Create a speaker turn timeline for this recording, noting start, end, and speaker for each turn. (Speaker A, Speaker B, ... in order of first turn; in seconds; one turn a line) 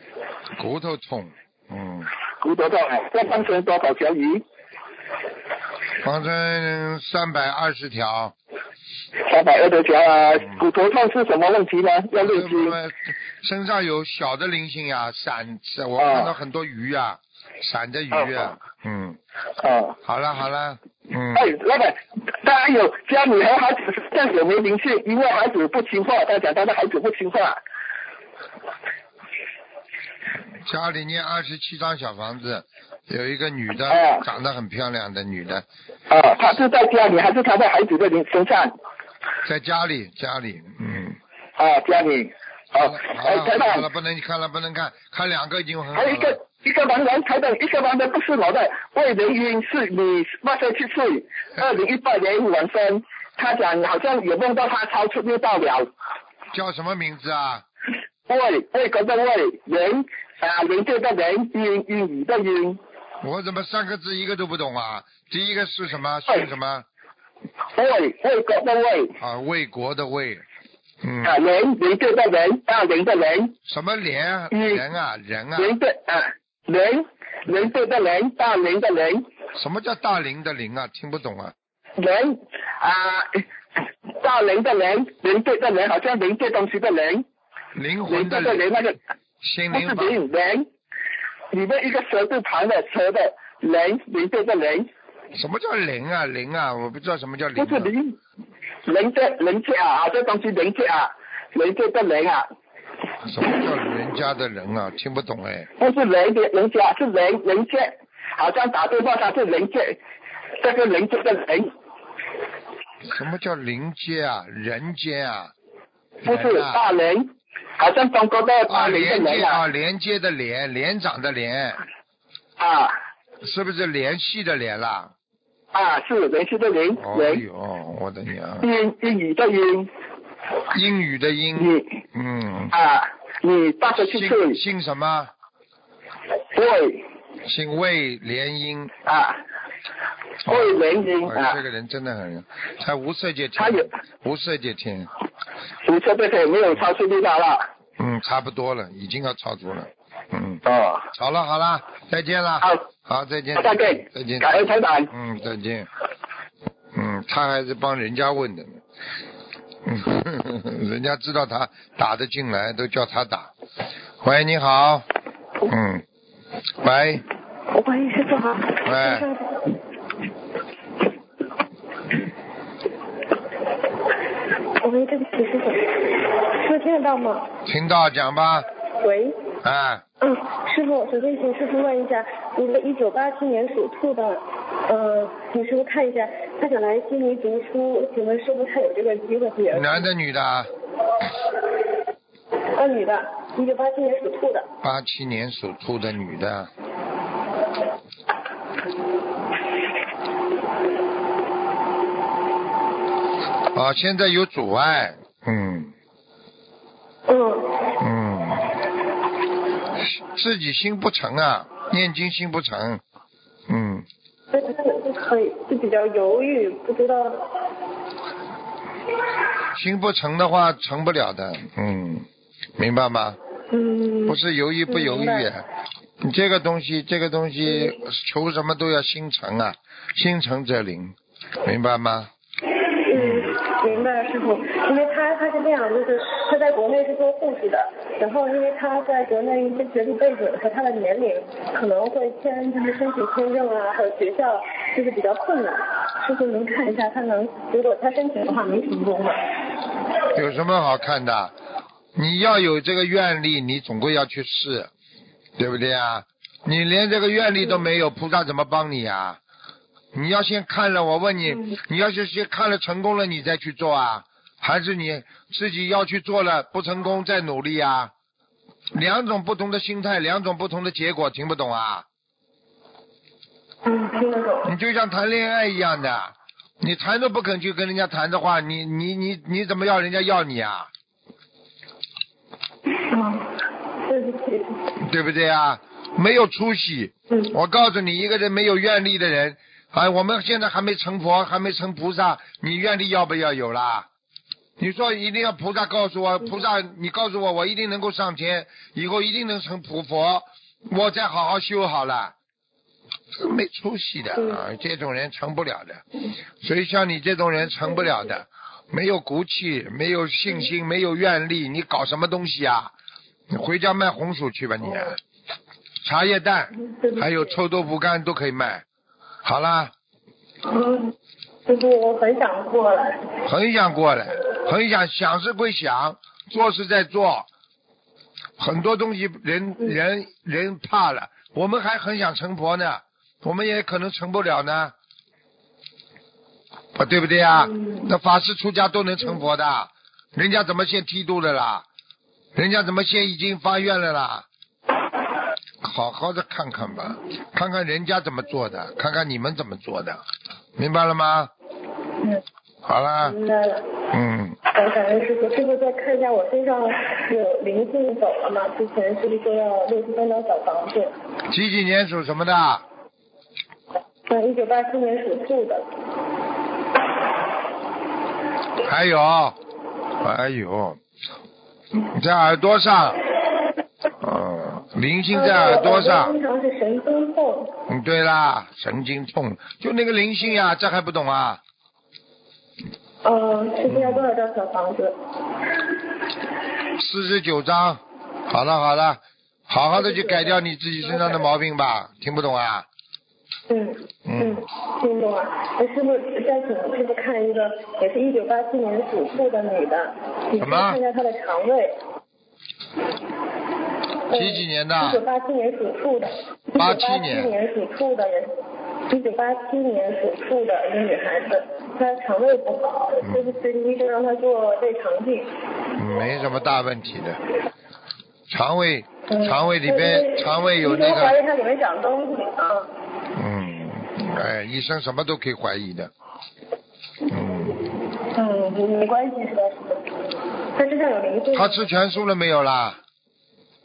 Speaker A: 0.6-2.1
Speaker B: 2.4-4.4
Speaker A: 6.0-8.3
Speaker B: 9.2-12.7
Speaker A: 12.2-19.2
Speaker B: 16.0-16.3
Speaker B: 19.6-20.0
Speaker A: 20.0-21.5
Speaker B: 21.3-27.6
Speaker A: 30.6-35.6
Speaker B: 33.9-34.2
Speaker B: 36.1-38.7
Speaker A: 39.4-41.2
Speaker B: 41.6-43.8
Speaker A: 42.8-46.4
Speaker B: 45.9-55.9
Speaker A: 56.5-57.6
Speaker B: 58.3-62.8
Speaker A: 63.2-66.8
Speaker B: 67.8-69.2
Speaker A: 69.2-70.4
Speaker A: 71.0-71.3
Speaker B: 71.2-73.5
Speaker A: 73.7-75.8
Speaker B: 74.5-74.8
Speaker B: 75.5-79.2
Speaker A: 79.5-81.5
Speaker B: 82.0-83.4
Speaker B: 84.2-87.2
Speaker A: 87.7-88.6
Speaker B: 88.1-89.0
Speaker A: 89.4-90.2
Speaker B: 89.7-90.7
Speaker B: 91.5-94.9
Speaker A: 95.3-97.9
Speaker B: 97.6-98.2
Speaker B: 98.9-102.5
Speaker A: 103.2-105.7
Speaker B: 105.8-110.0
Speaker B: 110.6-111.7
Speaker A: 113.1-115.5
Speaker A: 116.2-116.8
Speaker B: 116.2-119.6
Speaker A: 118.7-121.8
Speaker B: 122.6-123.0
Speaker A: 123.4-125.1
Speaker B: 125.7-127.4
Speaker A: 127.0-128.7
Speaker B: 128.6-129.9
Speaker A: 130.7-132.7
Speaker B: 131.6-131.9
Speaker B: 132.7-134.6
Speaker A: 134.0-135.3
Speaker B: 136.5-137.0
Speaker A: 137.4-138.9
Speaker B: 139.1-139.4
Speaker B: 140.4-141.6
Speaker A: 140.4-145.1
Speaker B: 143.6-143.9
Speaker B: 145.8-147.7
Speaker A: 148.0-150.6
Speaker B: 150.6-151.1
Speaker A: 151.1-155.9
Speaker B: 153.6-155.1
Speaker A: 156.9-158.8
Speaker A: 159.8-163.5
Speaker A: 164.2-165.1
Speaker A: 165.7-166.0
Speaker A: 166.8-167.2
Speaker C: 167.7-169.5
Speaker A: 168.8-169.2
Speaker C: 174.8-176.0
Speaker C: 176.6-177.5
Speaker A: 177.6-178.7
Speaker C: 179.0-179.3
Speaker A: 179.6-180.0
Speaker C: 180.2-190.0
Speaker A: 189.7-190.7
Speaker C: 192.7-194.7
Speaker A: 194.8-196.7
Speaker A: 203.7-205.9
Speaker C: 207.3-207.8
Speaker A: 208.0-208.7
Speaker A: 210.0-213.0
Speaker A: 213.7-214.1
Speaker C: 214.5-217.4
Speaker A: 219.7-222.3
Speaker A: 222.8-223.4
Speaker C: 223.7-225.5
Speaker A: 224.3-225.6
Speaker A: 226.2-232.3
Speaker C: 233.1-249.4
Speaker A: 233.1-233.5
Speaker A: 250.3-251.5
Speaker A: 252.2-254.9
Speaker A: 255.6-259.4
Speaker A: 260.1-268.1
Speaker A: 268.9-272.1
Speaker C: 273.8-274.7
Speaker A: 274.6-280.9
Speaker C: 283.1-283.5
Speaker C: 284.1-284.8
Speaker A: 285.0-294.1
Speaker A: 294.8-302.3
Speaker A: 303.3-306.0
Speaker A: 306.6-312.9
Speaker A: 313.5-315.2
Speaker A: 316.0-318.8
Speaker C: 316.9-317.4
Speaker A: 319.4-319.9
Speaker C: 320.7-321.1
Speaker C: 321.7-323.2
Speaker A: 323.4-327.5
Speaker A: 328.6-334.9
Speaker A: 336.9-341.9
Speaker A: 342.5-344.4
Speaker A: 345.8-350.2
Speaker A: 350.8-351.5
Speaker A: 352.9-353.4
Speaker C: 353.2-353.8
Speaker A: 354.1-354.6
Speaker C: 354.7-361.1
Speaker A: 361.5-362.8
Speaker C: 364.3-365.8
Speaker A: 368.8-369.6
Speaker A: 370.2-371.0
Speaker A: 372.0-373.2
Speaker A: 374.2-376.3
Speaker C: 375.3-377.7
Speaker A: 377.9-381.6
Speaker C: 383.2-385.1
Speaker A: 383.9-384.3
Speaker A: 386.9-392.9
Speaker C: 390.0-390.6
Speaker C: 393.7-402.0
Speaker A: 394.2-394.6
Speaker A: 400.6-401.0
Speaker C: 404.3-408.5
Speaker A: 404.3-405.2
Speaker A: 406.8-407.5
Speaker C: 409.1-415.5
Speaker A: 413.2-413.5
Speaker A: 416.0-417.4
Speaker A: 418.5-421.4
Speaker C: 419.3-422.9
Speaker A: 423.3-426.1
Speaker A: 427.3-427.8
Speaker C: 428.3-430.0
Speaker C: 430.8-431.9
Speaker A: 431.5-433.0